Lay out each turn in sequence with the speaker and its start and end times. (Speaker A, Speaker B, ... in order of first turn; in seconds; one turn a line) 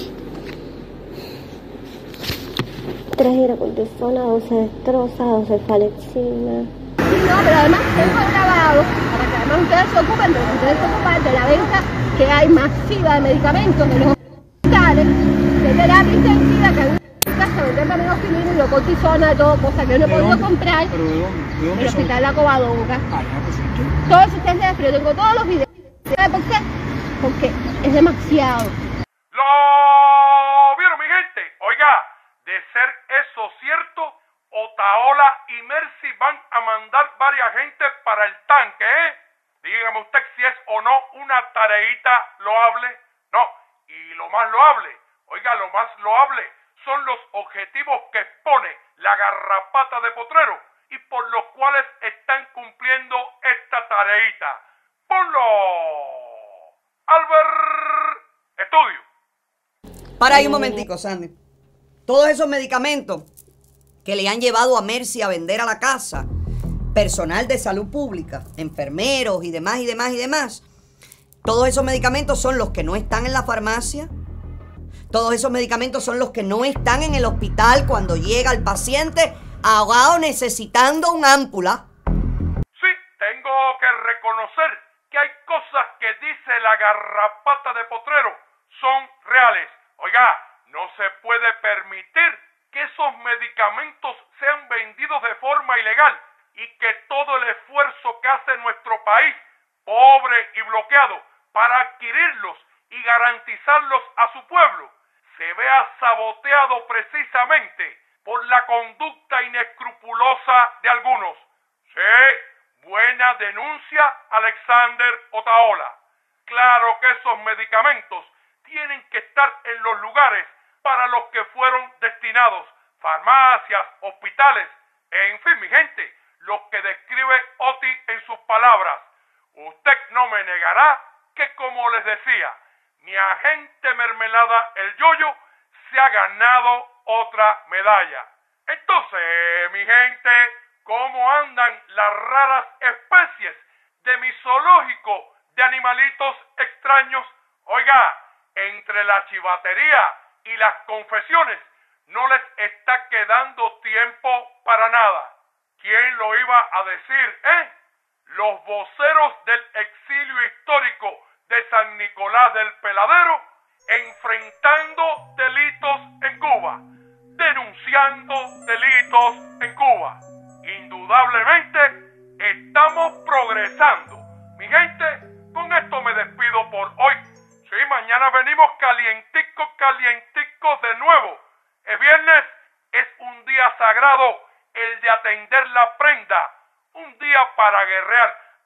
Speaker A: 3.2-6.7
Speaker B: 7.0-20.9
Speaker C: 20.1-22.2
Speaker B: 21.7-23.0
Speaker C: 23.1-24.0
Speaker B: 24.1-26.6
Speaker B: 27.2-28.8
Speaker D: 29.3-56.3
Speaker D: 57.1-59.0
Speaker E: 60.2-61.3
Speaker E: 62.1-63.3
Speaker E: 64.0-66.3
Speaker E: 66.9-70.6
Speaker E: 71.4-74.1
Speaker E: 75.1-81.8
Speaker D: 82.7-157.7
Speaker D: 158.3-166.8
Speaker D: 167.3-188.4